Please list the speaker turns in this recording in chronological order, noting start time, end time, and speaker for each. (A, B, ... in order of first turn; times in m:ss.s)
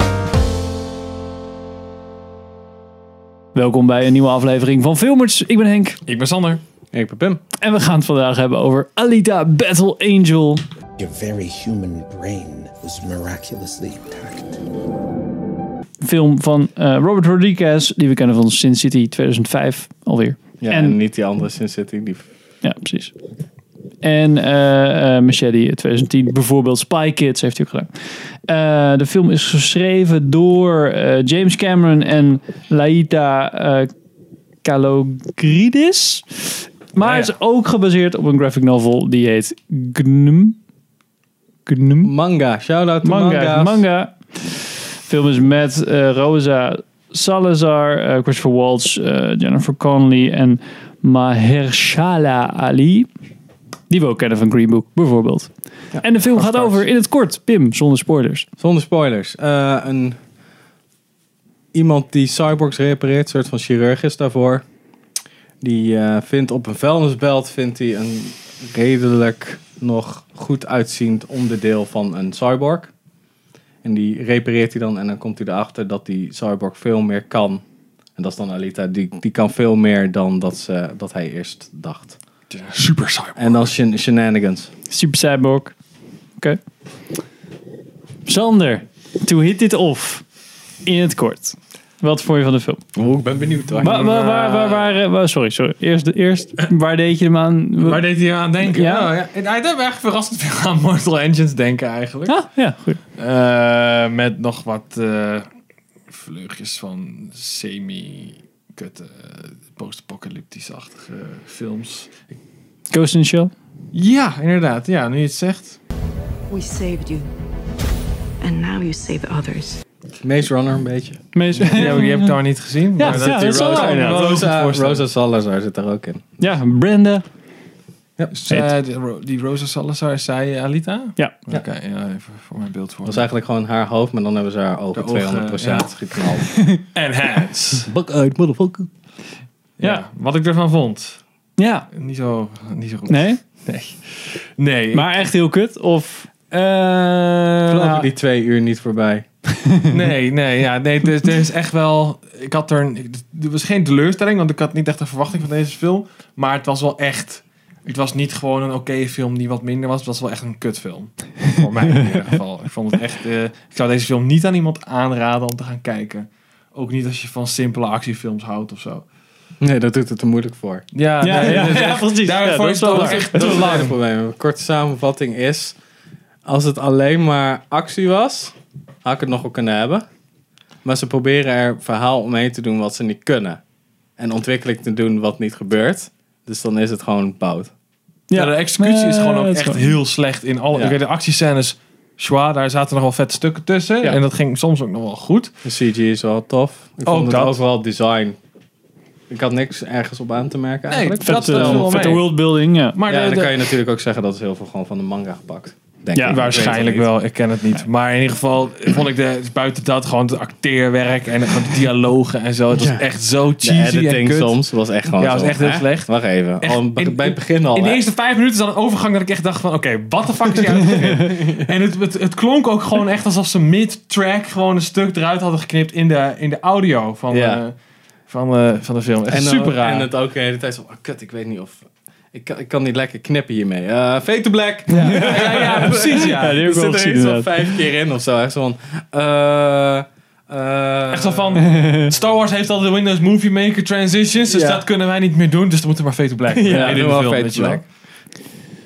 0:03.6-0:06.0 A
0:06.1-0:06.6 B
0:06.9-0:07.4 C
0:07.6-0:10.6 A
0:11.0-0:14.6 D
0:16.0-0:21.0 A
0:20.6-0:22.3 C
0:22.6-0:23.1 A
0:24.0-0:27.9 A
0:28.5-0:33.9 A
0:34.6-0:40.6 A
0:41.7-0:42.1 A
0:42.0-0:43.8 C
0:43.0-0:53.1 A
0:53.9-0:55.5 A
0:56.0-0:58.5 A
0:56.4-0:56.8 B
0:58.6-1:00.2 C
1:01.7-1:04.6 C
1:05.6-1:12.9 C
1:13.8-1:17.6 C
1:18.2-1:22.2 C
1:22.5-1:23.7 B
1:23.4-1:24.7 C
1:24.9-1:25.8 A
1:28.3-1:30.2 A
1:30.8-1:32.8 A
1:33.0-1:34.6 C
1:33.5-1:34.8 B
1:33.8-1:38.0 A
1:37.8-1:42.5 B
1:38.6-1:39.1 A
1:42.3-1:43.0 A
1:43.2-1:45.5 B
1:46.1-1:52.3 B
1:52.9-1:53.5 A
1:53.9-1:55.8 B
1:56.5-1:57.3 E
1:58.4-1:59.8 E
2:00.2-2:01.2 C
2:01.3-2:02.3 A
2:01.6-2:05.0 B
2:03.0-2:04.4 A
2:03.0-2:06.2 C
2:06.4-2:07.2 A
2:08.3-2:13.3 B
2:13.0-2:16.5 C
2:14.9-2:15.9 B
2:16.5-2:16.8 A
2:16.9-2:17.9 B
2:17.9-2:18.9 C
2:19.8-2:21.2 B
2:21.6-2:21.9 A
2:21.9-2:25.1 B
2:23.1-2:23.4 A
2:24.9-2:26.3 A
2:26.5-2:28.0 B
2:27.7-2:29.3 C
2:29.6-2:29.9 A
2:29.9-2:49.0 B
2:49.6-2:50.8 C
2:50.9-2:54.0 B
2:51.2-2:53.5 A
2:53.0-2:55.8 C
2:56.5-3:00.0 C
3:00.8-3:03.6 C
3:04.2-3:07.7 C
3:08.3-3:10.0 A
3:08.3-3:15.5 B
3:15.6-3:18.4 C
3:17.0-3:17.6 B
3:19.3-3:22.2 C
3:20.9-3:22.3 B
3:21.2-3:23.0 A
3:23.0-3:23.6 B
3:23.1-3:27.1 C
3:26.1-3:26.6 A
3:26.2-3:47.7 B
3:32.7-3:33.0 C
3:33.6-3:38.0 C
3:41.3-3:41.6 C
3:47.3-3:47.6 C
3:48.3-3:50.1 B
3:49.3-4:01.6 C
3:54.9-3:57.7 A
3:54.9-3:56.6 B
4:01.1-4:07.8 B
4:01.6-4:02.2 A
4:04.5-4:04.8 C
4:06.5-4:07.8 C
4:06.7-4:07.0 A